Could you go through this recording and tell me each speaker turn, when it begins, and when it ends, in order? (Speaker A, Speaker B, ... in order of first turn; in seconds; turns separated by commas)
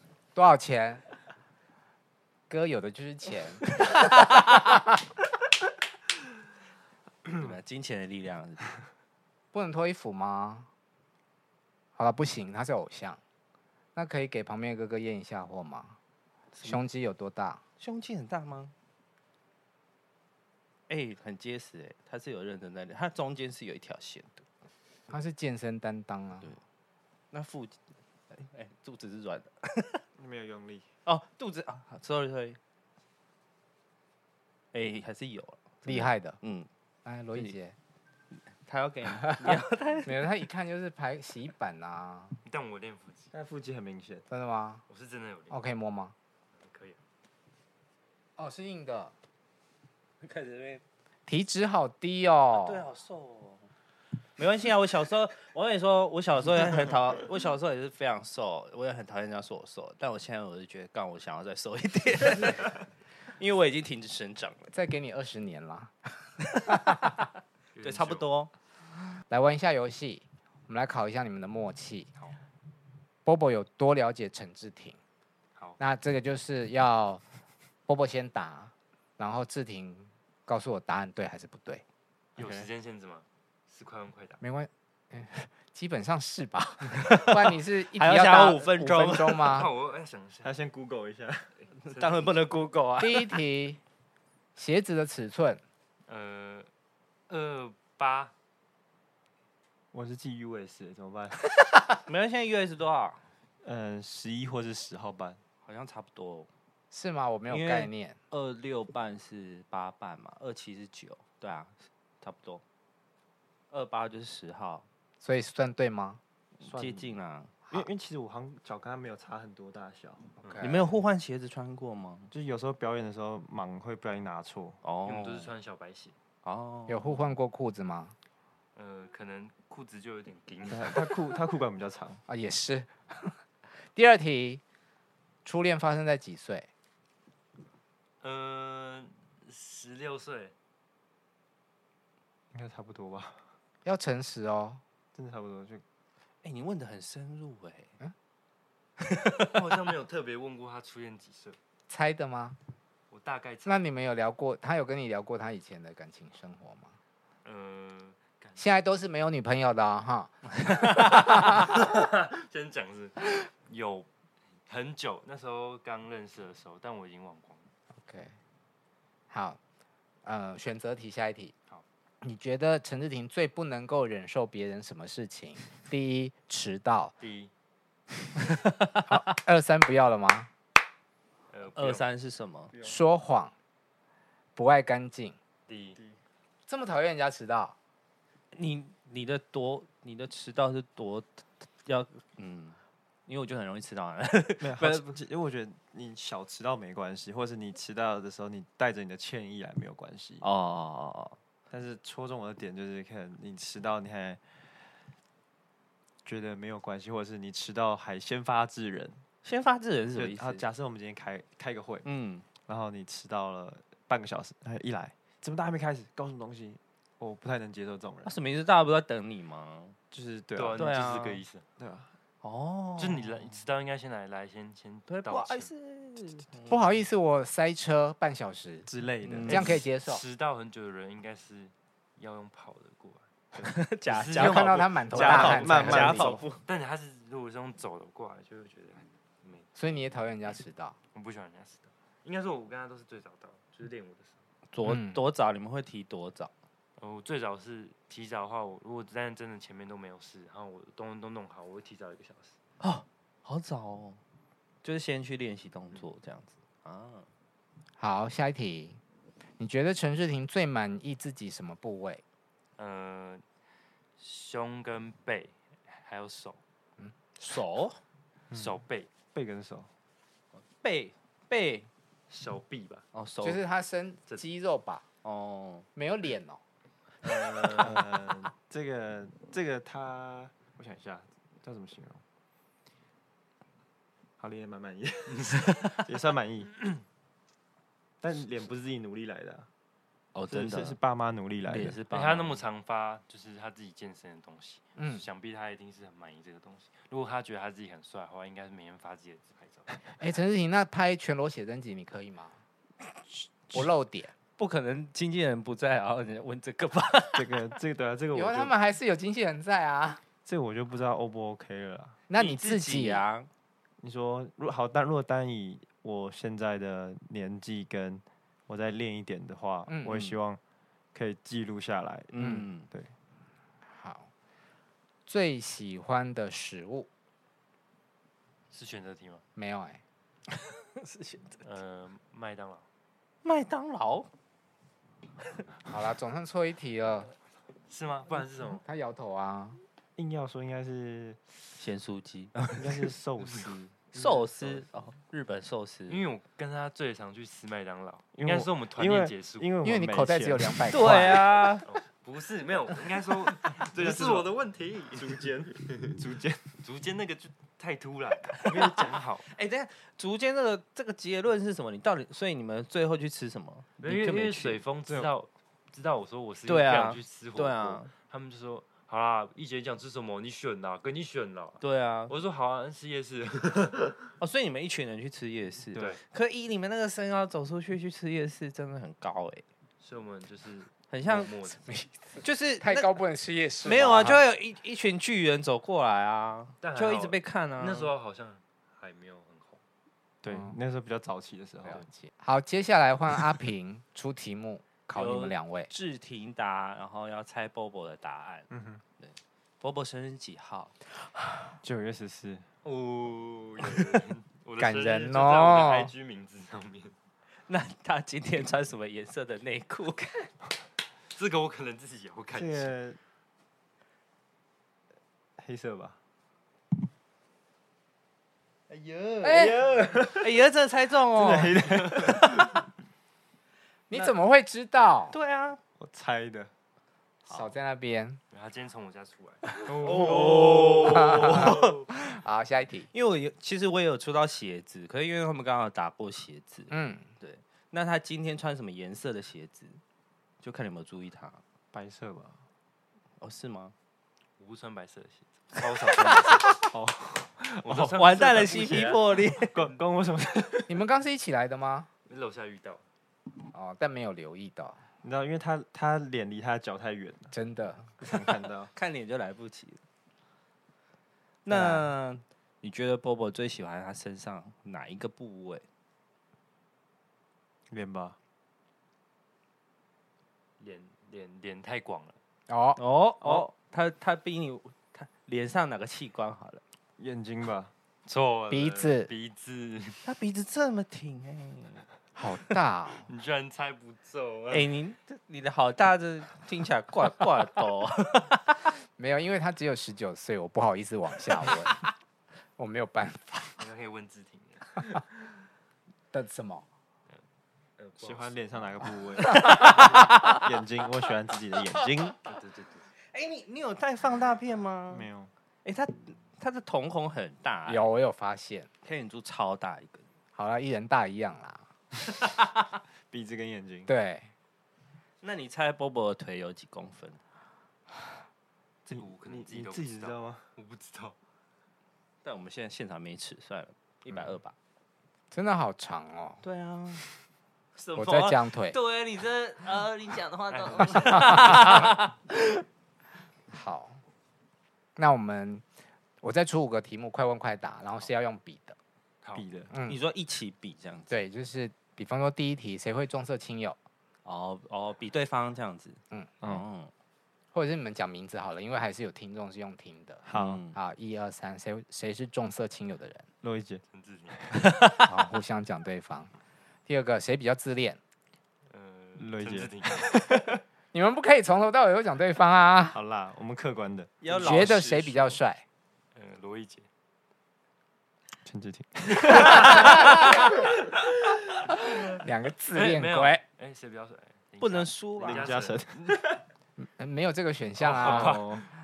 Speaker A: 0.3-1.0, Speaker A: 2.5-4.8, Speaker B: 3.8-4.6, Speaker B: 7.2-8.8, Speaker A: 9.5-10.7, Speaker A: 11.9-13.2, Speaker A: 13.9-16.0, Speaker B: 16.5-16.8, Speaker A: 16.6-17.6, Speaker B: 17.8-18.7, Speaker B: 20.9-24.4, Speaker A: 25.1-26.6, Speaker B: 27.3-27.8, Speaker B: 28.3-30.0, Speaker C: 30.2-30.9, Speaker B: 31.1-32.6, Speaker B: 34.7-36.7, Speaker A: 35.8-36.4, Speaker A: 37.0-37.8, Speaker B: 38.6-40.2, Speaker A: 39.5-42.4, Speaker D: 42.4-43.3, Speaker C: 43.3-44.2, Speaker A: 44.3-44.8, Speaker D: 44.9-45.6, Speaker A: 45.5-46.1, Speaker D: 46.5-47.0, Speaker A: 48.4-49.1, Speaker B: 50.2-50.8, Speaker A: 51.3-52.9, Speaker B: 52.5-53.6, Speaker B: 54.4-64.7, Speaker A: 64.7-66.0, Speaker A: 66.7-67.1, Speaker D: 67.7-68.3, Speaker B: 67.8-68.5, Speaker A: 69.3-72.1, Speaker A: 73.2-75.0, Speaker A: 75.8-77.2, Speaker A: 77.9-81.8, Speaker C: 82.3-82.7, Speaker D: 82.3-84.4, Speaker A: 84.4-89.7, Speaker B: 87.0-87.4, Speaker B: 87.9-89.5, Speaker C: 88.8-89.2, Speaker D: 89.5-90.5, Speaker C: 90.4-91.5, Speaker D: 91.6-92.4, Speaker B: 91.8-93.4, Speaker A: 93.0-93.8, Speaker A: 94.5-95.6, Speaker D: 96.1-96.7, Speaker D: 97.3-98.3, Speaker C: 99.9-101.4, Speaker B: 101.9-103.2, Speaker C: 103.6-105.4, Speaker B: 105.6-106.5, Speaker A: 106.9-108.2, Speaker B: 107.5-112.6, Speaker B: 113.7-114.8, Speaker A: 115.2-116.2, Speaker B: 116.6-117.5, Speaker C: 116.6-117.1, Speaker C: 117.7-120.3, Speaker D: 120.4-120.7, Speaker A: 120.4-120.8, Speaker B: 120.6-122.3, Speaker C: 122.3-124.8, Speaker B: 124.8-125.5, Speaker D: 125.0-126.2, Speaker B: 126.4-127.2, Speaker A: 126.9-128.2, Speaker D: 128.7-131.1, Speaker C: 130.7-132.2, Speaker A: 132.3-134.6, Speaker A: 135.4-136.7, Speaker D: 138.2-140.5, Speaker C: 142.5-143.4, Speaker A: 143.8-144.8, Speaker C: 145.1-145.8, Speaker B: 146.4-147.9, Speaker B: 149.1-149.4, Speaker D: 149.4-151.6, Speaker A: 151.9-152.6, Speaker D: 153.1-153.8, Speaker A: 153.7-156.9, Speaker D: 157.4-158.7, Speaker A: 158.6-160.4, Speaker A: 161.0-161.6, Speaker D: 161.3-164.1, Speaker D: 164.7-167.7, Speaker A: 168.0-168.3, Speaker A: 169.3-169.6, Speaker A: 170.2-171.5, Speaker A: 172.2-177.1, Speaker D: 177.2-177.5, Speaker A: 179.0-180.5, Speaker D: 181.5-182.1, Speaker B: 181.7-182.7, Speaker A: 182.8-183.5, Speaker A: 184.6-185.3, Speaker D: 185.7-186.0, Speaker A: 186.7-187.8, Speaker B: 188.5-195.1, Speaker C: 194.6-200.4, Speaker B: 200.4-201.4, Speaker C: 201.7-204.4, Speaker C: 206.2-209.2, Speaker B: 209.4-210.6, Speaker C: 210.1-212.1, Speaker B: 212.0-212.4, Speaker C: 212.6-218.4, Speaker B: 218.2-220.0, Speaker C: 220.1-220.9, Speaker D: 220.5-221.6, Speaker B: 220.8-221.4, Speaker C: 221.8-222.1, Speaker B: 222.4-223.2, Speaker D: 223.0-225.7, Speaker B: 225.1-226.9, Speaker A: 226.7-230.2, Speaker C: 228.9-229.7, Speaker B: 229.2-229.8, Speaker D: 230.0-233.3, Speaker C: 233.5-233.8, Speaker B: 233.6-236.6, Speaker D: 234.1-235.6, Speaker A: 234.3-236.4, Speaker C: 235.2-236.4, Speaker D: 236.6-239.7, Speaker A: 239.8-241.0, Speaker D: 241.1-244.4, Speaker B: 244.7-246.5, Speaker A: 244.8-245.2, Speaker D: 247.0-252.6, Speaker B: 252.8-254.2, Speaker B: 254.8-257.3, Speaker A: 258.0-259.0, Speaker A: 259.6-262.2, Speaker D: 262.8-263.4, Speaker D: 264.2-266.6, Speaker B: 267.4-268.0, Speaker D: 268.5-269.1, Speaker C: 269.3-269.9, Speaker B: 270.6-271.9, Speaker D: 272.3-273.1, Speaker B: 273.1-273.6, Speaker A: 273.4-275.1, Speaker B: 275.2-275.9, Speaker A: 275.9-276.6, Speaker D: 277.2-278.1, Speaker C: 277.2-282.2, Speaker C: 284.4-286.7, Speaker D: 285.3-285.9, Speaker C: 288.2-289.7, Speaker B: 290.3-291.0, Speaker C: 290.5-292.0, Speaker B: 291.7-292.6, Speaker D: 292.1-300.0, Speaker A: 295.0-295.2, Speaker A: 300.2-302.6, Speaker A: 303.7-304.3, Speaker B: 304.6-307.6, Speaker C: 307.3-308.7, Speaker A: 308.3-310.2, Speaker C: 310.4-312.2, Speaker A: 312.3-313.2, Speaker B: 312.3-313.5, Speaker C: 314.0-320.6, Speaker A: 319.9-320.1, Speaker B: 320.1-320.4, Speaker C: 321.1-323.1, Speaker B: 322.3-322.9, Speaker A: 322.4-322.7, Speaker A: 323.9-324.3, Speaker A: 325.3-327.1, Speaker D: 328.7-329.4, Speaker A: 329.6-330.0, Speaker B: 330.8-331.6, Speaker D: 331.6-332.9, Speaker B: 333.4-334.3, Speaker A: 335.9-337.3, Speaker D: 337.9-338.8, Speaker A: 338.6-339.8, Speaker C: 340.2-341.4, Speaker B: 341.8-343.1, Speaker C: 342.7-344.9, Speaker B: 344.1-346.3, Speaker D: 346.1-349.7, Speaker C: 348.3-351.3, Speaker A: 349.8-351.7, Speaker B: 350.9-351.9, Speaker D: 351.8-356.2, Speaker C: 353.8-354.5, Speaker C: 355.2-356.7, Speaker D: 356.8-359.5, Speaker B: 359.4-364.8, Speaker D: 364.0-374.2, Speaker B: 366.6-368.1, Speaker B: 371.8-372.3, Speaker B: 374.4-379.6, Speaker D: 375.9-376.2, Speaker D: 380.0-381.8, Speaker B: 381.1-381.5, Speaker A: 381.7-384.4, Speaker B: 382.4-383.1, Speaker B: 383.8-388.1, Speaker D: 386.8-389.8, Speaker C: 390.4-392.0, Speaker A: 390.5-390.8, Speaker A: 391.9-395.9, Speaker B: 395.1-398.7, Speaker C: 398.7-399.0, Speaker B: 399.2-400.9, Speaker C: 401.8-402.6, Speaker D: 402.8-407.1, Speaker A: 404.8-406.1, Speaker B: 407.7-410.5, Speaker D: 411.3-412.9, Speaker C: 412.5-413.2, Speaker C: 415.6-416.2, Speaker D: 418.9-420.3, Speaker A: 419.4-419.8, Speaker C: 419.5-420.5, Speaker B: 420.4-422.7, Speaker C: 421.3-422.8, Speaker D: 421.9-422.4, Speaker A: 424.1-425.3, Speaker B: 425.3-425.8, Speaker C: 426.0-426.7, Speaker A: 427.5-428.4, Speaker D: 428.5-431.7, Speaker C: 429.9-431.8, Speaker B: 430.0-431.8, Speaker A: 431.0-433.1, Speaker B: 433.1-440.0, Speaker A: 436.9-437.3, Speaker B: 440.6-441.6, Speaker C: 441.9-442.6, Speaker B: 443.4-443.9, Speaker D: 444.6-446.7, Speaker B: 446.2-446.8, Speaker C: 446.8-448.7, Speaker D: 447.8-449.4, Speaker B: 448.1-449.8, Speaker C: 449.5-451.0, Speaker A: 450.9-452.1, Speaker D: 452.3-453.0, Speaker A: 453.7-455.0, Speaker C: 455.2-457.5, Speaker A: 457.5-458.1, Speaker C: 458.2-458.9, Speaker B: 458.9-460.0, Speaker B: 461.6-465.8, Speaker A: 461.7-462.1, Speaker C: 467.9-468.4, Speaker D: 470.8-472.4, Speaker A: 472.7-473.0, Speaker B: 473.0-476.8, Speaker C: 473.4-473.7, Speaker C: 477.2-477.9, Speaker D: 478.2-480.3, Speaker A: 478.7-479.3, Speaker B: 480.2-482.1, Speaker A: 482.4-483.3, Speaker D: 483.2-484.9, Speaker B: 484.7-488.8, Speaker A: 489.1-492.0, Speaker A: 492.8-493.8, Speaker D: 493.8-495.1, Speaker A: 496.3-496.9, Speaker D: 498.0-498.6, Speaker C: 498.2-502.4, Speaker B: 499.5-500.7, Speaker D: 502.4-503.1, Speaker B: 503.3-505.3, Speaker C: 505.1-505.5, Speaker B: 505.8-508.0, Speaker A: 507.9-508.9, Speaker B: 509.0-510.2, Speaker A: 510.5-511.9, Speaker C: 513.3-514.1, Speaker A: 514.1-514.5, Speaker B: 515.4-517.4, Speaker D: 519.0-521.4, Speaker C: 519.1-520.6, Speaker B: 522.4-524.7, Speaker A: 525.5-526.6, Speaker B: 526.6-527.2, Speaker B: 527.9-532.8, Speaker A: 528.1-529.0, Speaker D: 530.7-532.2, Speaker A: 531.5-531.8, Speaker A: 533.7-534.2, Speaker A: 535.1-535.9, Speaker A: 536.4-539.0, Speaker C: 539.5-539.9, Speaker A: 539.9-540.2, Speaker B: 540.0-541.4, Speaker A: 541.3-544.0, Speaker B: 544.4-547.1, Speaker A: 547.7-553.5, Speaker C: 550.4-550.8, Speaker B: 550.5-551.0, Speaker C: 553.6-554.0, Speaker D: 554.1-554.8, Speaker B: 555.0-555.3, Speaker A: 555.2-556.5, Speaker A: 557.0-558.2, Speaker D: 558.9-560.4, Speaker C: 559.4-560.8, Speaker A: 561.1-563.2, Speaker C: 563.1-564.9, Speaker B: 564.4-565.6, Speaker A: 564.5-565.8, Speaker D: 566.3-567.1, Speaker C: 568.6-570.6, Speaker D: 569.4-570.1, Speaker A: 569.7-570.4, Speaker A: 572.3-573.6, Speaker D: 572.9-576.4, Speaker B: 574.8-575.7, Speaker C: 575.4-576.6, Speaker A: 577.0-578.6, Speaker D: 578.0-578.8, Speaker C: 578.1-578.9